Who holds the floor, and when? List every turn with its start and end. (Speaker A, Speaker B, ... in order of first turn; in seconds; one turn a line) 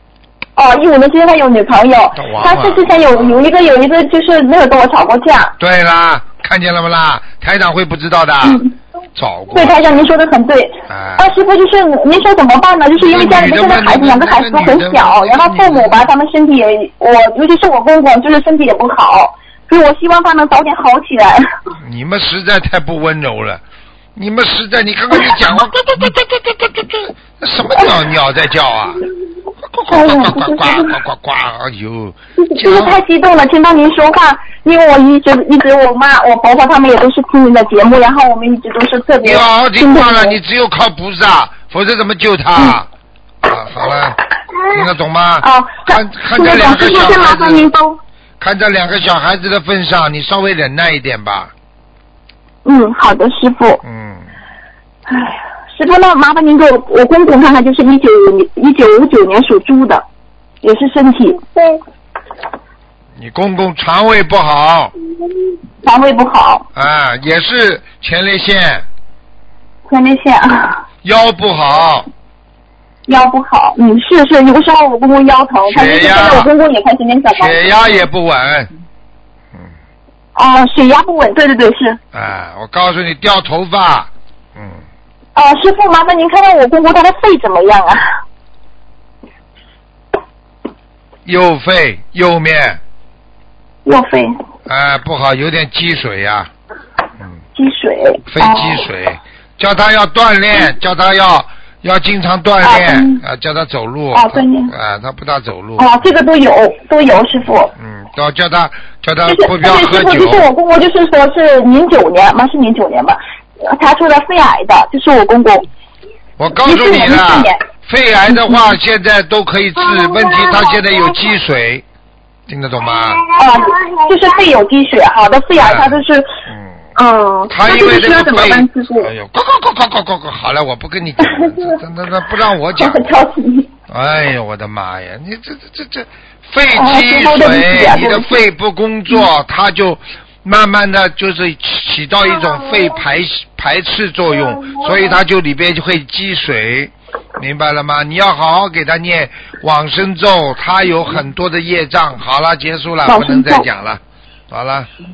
Speaker A: 0.6-5.5
Speaker B: 2.1-3.4
Speaker B: 5.6-8.6
Speaker A: 8.4-8.7
Speaker B: 9.2-10.1
Speaker A: 9.5-21.5
Speaker B: 10.9-11.4
Speaker B: 13.0-16.1
Speaker B: 21.8-23.6
Speaker B: 24.2-29.1
Speaker B: 29.6-33.0
Speaker A: 29.9-31.0
Speaker A: 32.4-40.4
Speaker B: 39.2-42.9
Speaker B: 43.4-47.7
Speaker A: 45.4-48.0
Speaker B: 48.4-51.5
Speaker A: 52.6-53.8
Speaker B: 53.8-54.3
Speaker A: 55.1-60.0
Speaker A: 60.6-61.8
Speaker B: 63.2-64.9
Speaker A: 65.8-66.7
Speaker B: 66.7-68.9
Speaker A: 69.9-70.8
Speaker B: 71.0-72.1
Speaker A: 73.1-77.8
Speaker B: 75.7-76.5
Speaker B: 77.3-78.7
Speaker A: 80.4-82.0
Speaker B: 82.1-84.8
Speaker A: 85.3-88.1
Speaker B: 91.2-92.8
Speaker A: 93.8-94.3
Speaker B: 94.7-96.5
Speaker A: 97.5-98.9
Speaker B: 98.3-106.0
Speaker A: 102.6-103.2
Speaker A: 104.1-104.7
Speaker A: 105.8-107.7
Speaker B: 107.8-110.5
Speaker A: 109.3-115.7
Speaker B: 116.4-121.8
Speaker A: 116.6-117.6
Speaker B: 122.5-123.3
Speaker A: 123.3-126.3
Speaker B: 125.6-126.9
Speaker A: 127.0-129.1
Speaker B: 127.5-133.1
Speaker A: 131.2-131.8
Speaker A: 132.8-133.7
Speaker B: 133.9-154.9
Speaker A: 136.8-138.4
Speaker A: 153.1-153.7